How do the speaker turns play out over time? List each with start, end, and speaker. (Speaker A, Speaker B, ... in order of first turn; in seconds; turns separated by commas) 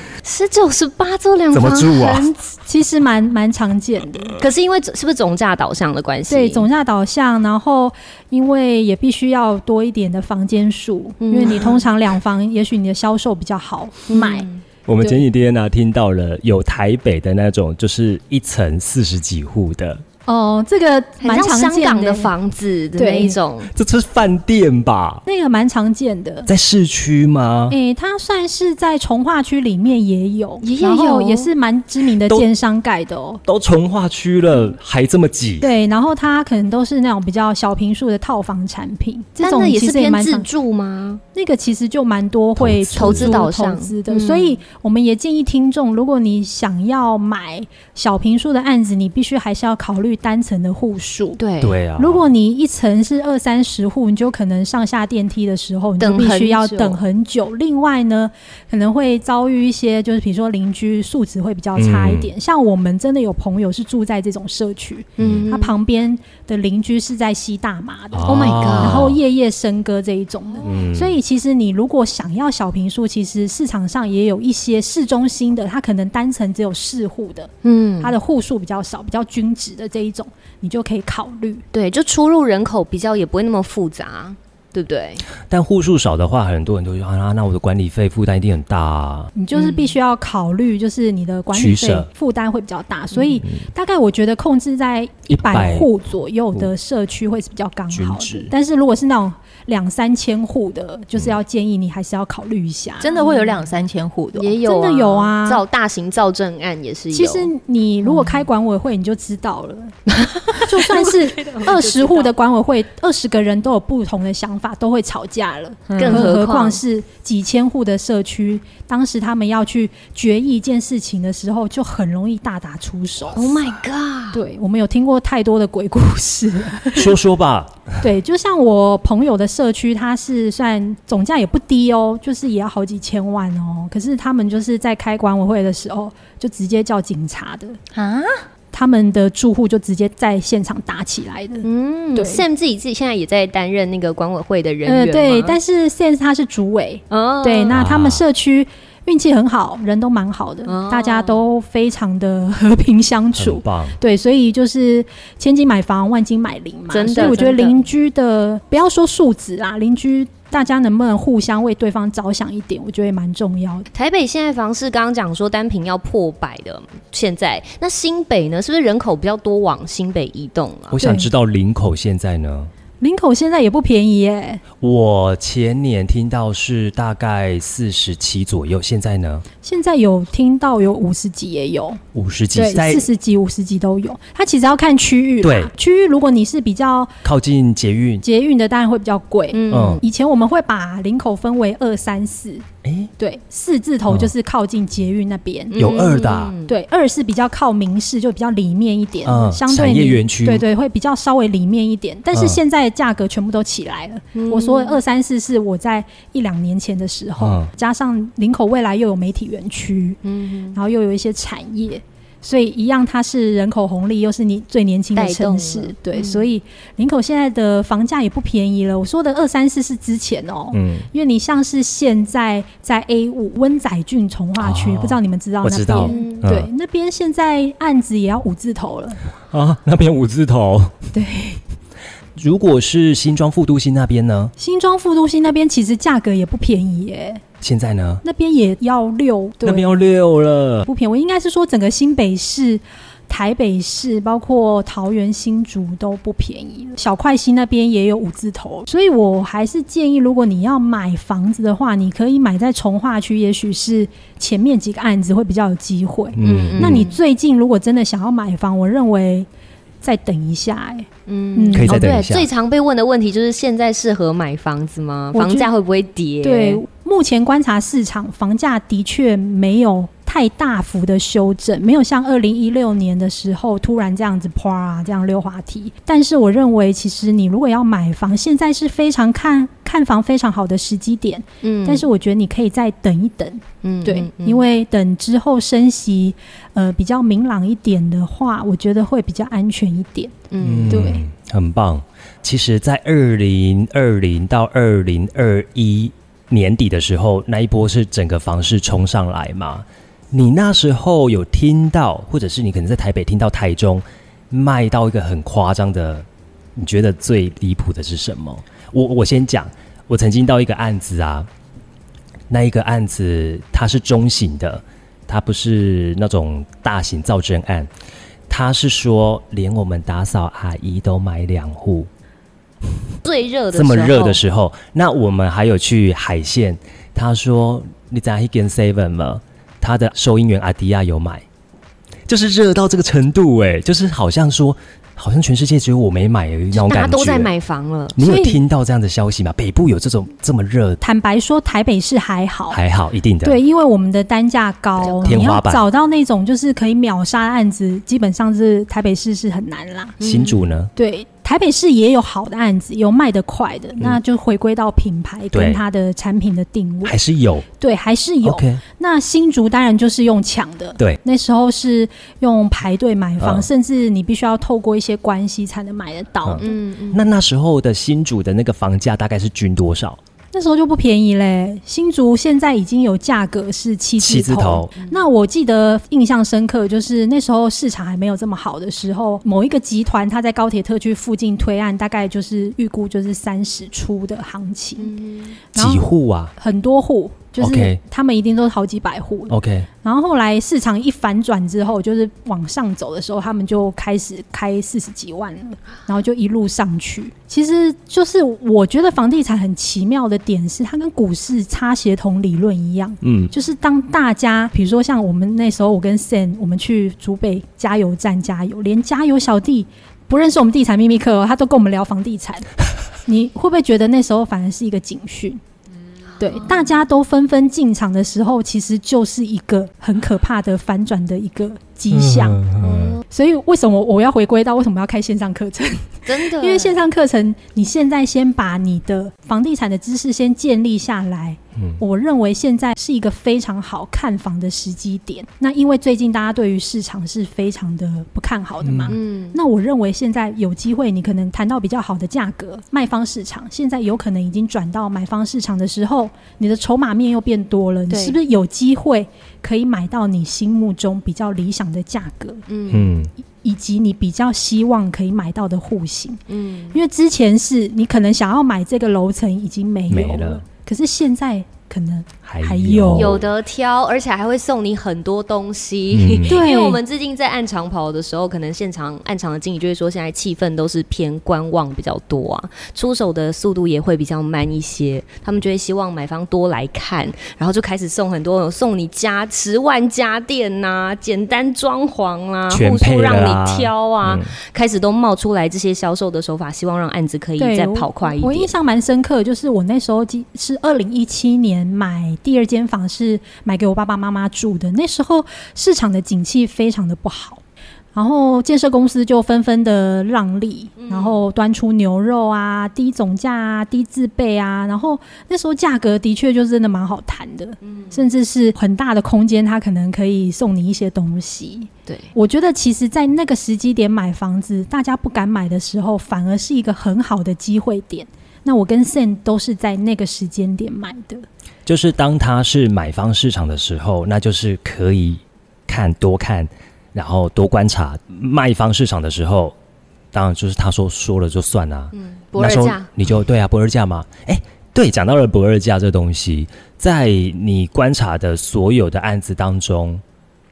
Speaker A: 0.2-2.5, Speaker B: 1.5-2.3, Speaker C: 2.6-4.4, Speaker A: 4.4-6.7, Speaker C: 6.3-14.5, Speaker A: 11.2-11.8, Speaker A: 14.1-14.6, Speaker B: 14.9-20.0, Speaker C: 20.3-22.3, Speaker A: 21.2-23.7, Speaker C: 23.0-23.4, Speaker B: 23.8-25.2, Speaker C: 25.3-26.5, Speaker B: 26.5-27.8, Speaker C: 27.7-33.4, Speaker A: 30.6-31.5, Speaker B: 33.5-35.7, Speaker C: 35.6-40.5, Speaker A: 39.4-41.2, Speaker C: 41.4-51.4, Speaker B: 42.6-43.5, Speaker A: 43.0-44.6, Speaker A: 51.4-51.8, Speaker B: 51.6-52.3, Speaker C: 52.0-81.7, Speaker A: 56.0-57.0, Speaker B: 61.8-62.3, Speaker B: 65.2-65.5, Speaker A: 65.2-65.7, Speaker B: 68.1-69.2, Speaker A: 68.3-69.1, Speaker B: 70.6-71.2, Speaker A: 77.6-78.1, Speaker A: 81.7-85.2, Speaker B: 85.5-89.3, Speaker C: 89.3-103.5, Speaker A: 89.5-90.0, Speaker B: 91.5-92.1, Speaker B: 95.3-95.9, Speaker B: 97.9-98.5, Speaker D: 103.0-104.5, Speaker A: 104.3-107.5, Speaker C: 104.6-105.6, Speaker C: 107.1-110.0, Speaker A: 110.2-112.3, Speaker C: 110.5-123.6, Speaker D: 115.9-116.3, Speaker A: 116.0-116.8, Speaker A: 123.3-124.4, Speaker C: 124.3-127.2, Speaker B: 127.0-128.0, Speaker C: 128.0-137.8, Speaker A: 138.0-138.4, Speaker C: 138.7-142.4, Speaker A: 141.6-145.6, Speaker C: 144.8-163.9, Speaker A: 147.1-147.8, Speaker B: 147.7-148.2, Speaker A: 150.7-151.4, Speaker B: 153.3-154.0, Speaker A: 156.9-157.8, Speaker A: 163.9-171.0, Speaker B: 170.9-172.7, Speaker C: 171.0-171.3, Speaker C: 173.0-174.6, Speaker B: 174.8-179.4, Speaker C: 179.6-182.0, Speaker B: 182.1-183.1, Speaker C: 182.5-187.2, Speaker B: 185.4-185.7, Speaker B: 187.2-188.2, Speaker C: 188.2-192.7, Speaker A: 189.5-190.0, Speaker B: 189.7-190.0, Speaker B: 192.8-193.1, Speaker C: 193.2-195.9, Speaker A: 195.7-196.7, Speaker B: 195.8-196.6, Speaker C: 196.7-210.2, Speaker B: 199.2-200.7, Speaker B: 202.3-202.6, Speaker A: 204.3-205.0, Speaker B: 207.4-207.7, Speaker A: 210.2-210.8, Speaker C: 210.7-229.2, Speaker A: 215.2-216.5, Speaker B: 220.7-221.1, Speaker B: 224.6-226.7, Speaker A: 226.0-226.4, Speaker B: 229.5-231.0, Speaker C: 231.1-231.6, Speaker B: 232.4-234.5, Speaker C: 234.6-237.4, Speaker B: 237.6-238.2, Speaker C: 238.2-240.1, Speaker B: 239.6-240.9, Speaker C: 240.8-259.5, Speaker B: 256.4-257.1, Speaker A: 256.4-257.2, Speaker C: 260.0-262.1, Speaker A: 261.3-266.8, Speaker B: 261.7-262.5, Speaker C: 265.3-265.7, Speaker C: 266.4-290.4, Speaker A: 281.6-282.1, Speaker A: 283.8-284.6, Speaker A: 290.5-291.2, Speaker B: 290.6-311.5, Speaker C: 290.9-291.2, Speaker B: 312.5-317.9, Speaker B: 318.5-322.1, Speaker A: 323.2-324.4, Speaker B: 323.7-331.4, Speaker B: 332.3-337.5, Speaker A: 336.7-338.2, Speaker B: 338.1-341.0, Speaker C: 338.2-338.6, Speaker C: 341.0-342.8, Speaker B: 342.7-343.6, Speaker C: 343.4-350.2, Speaker A: 345.0-345.4, Speaker B: 345.2-345.8, Speaker A: 350.2-350.6, Speaker B: 350.2-350.9, Speaker C: 351.0-357.2, Speaker B: 355.5-355.8, Speaker B: 357.1-357.7, Speaker C: 357.8-366.7, Speaker B: 358.4-358.8, Speaker B: 363.4-363.7, Speaker B: 366.4-370.2, Speaker A: 366.6-367.2, Speaker C: 370.5-385.1, Speaker B: 374.2-374.9, Speaker A: 385.0-385.6, Speaker C: 385.8-386.1, Speaker B: 385.8-386.5, Speaker C: 386.6-412.7, Speaker B: 387.6-388.0, Speaker B: 389.5-389.9, Speaker B: 403.2-403.5, Speaker C: 413.2-415.6, Speaker C: 416.4-422.6, Speaker A: 416.4-416.9, Speaker B: 422.1-423.2, Speaker A: 422.8-423.2, Speaker C: 423.3-452.6, Speaker A: 426.3-427.0, Speaker B: 438.8-439.1, Speaker A: 439.1-439.6, Speaker A: 448.1-448.4, Speaker A: 452.7-453.1, Speaker B: 452.9-453.3, Speaker C: 453.6-456.4, Speaker A: 456.5-457.0, Speaker C: 456.9-463.4, Speaker B: 460.1-460.6, Speaker B: 462.4-463.5, Speaker A: 463.1-488.7, Speaker B: 466.1-466.6, Speaker C: 466.5-467.0, Speaker B: 482.7-484.5, Speaker C: 487.6-497.6, Speaker C: 498.1-521.5, Speaker A: 501.0-501.4, Speaker A: 507.9-508.2, Speaker B: 521.9-529.8, Speaker B: 530.3-540.2, Speaker A: 532.2-533.1